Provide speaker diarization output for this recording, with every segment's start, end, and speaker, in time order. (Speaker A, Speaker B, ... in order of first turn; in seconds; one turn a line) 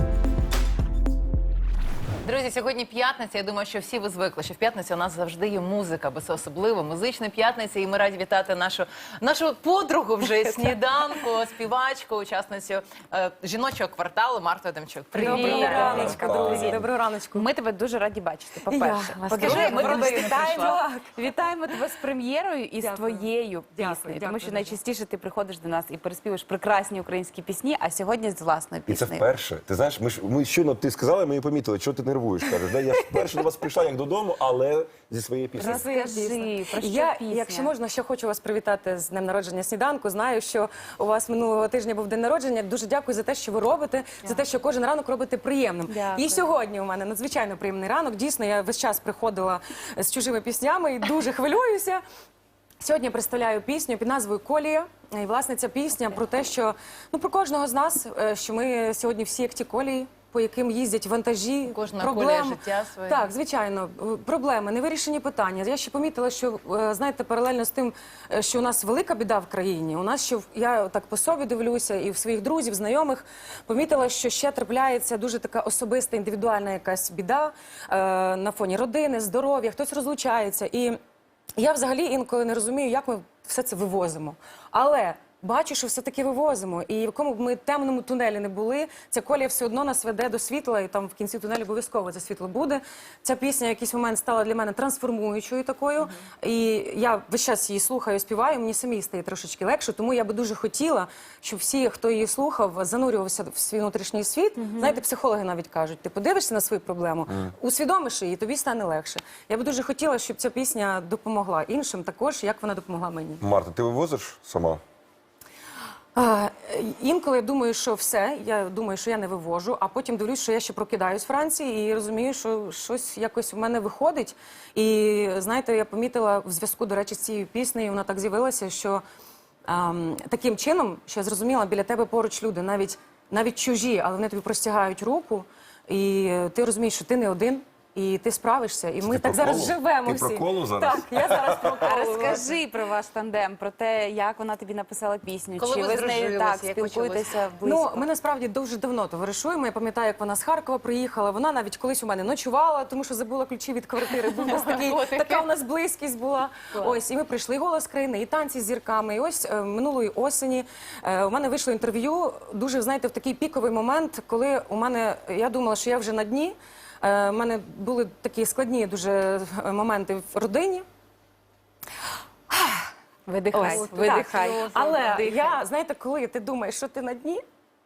Speaker A: 2.2-16.4
Speaker B: 15.1-17.5
Speaker C: 15.2-29.2
Speaker D: 15.6-16.8
Speaker B: 18.7-21.1
Speaker A: 19.4-20.8
Speaker B: 22.8-24.8
Speaker D: 28.9-35.8
Speaker C: 35.6-37.7
Speaker B: 35.6-52.0
Speaker C: 45.9-46.5
Speaker B: 52.8-81.0
Speaker A: 61.7-63.3
Speaker B: 81.6-113.4
Speaker D: 113.4-114.8
Speaker B: 116.1-129.0
Speaker B: 129.7-142.5
Speaker D: 139.0-141.9
Speaker C: 141.7-148.1
Speaker A: 145.6-147.4
Speaker B: 147.6-170.8
Speaker A: 154.2-155.5
Speaker B: 172.5-172.9
Speaker C: 173.3-175.6
Speaker B: 173.5-177.4
Speaker A: 173.6-175.2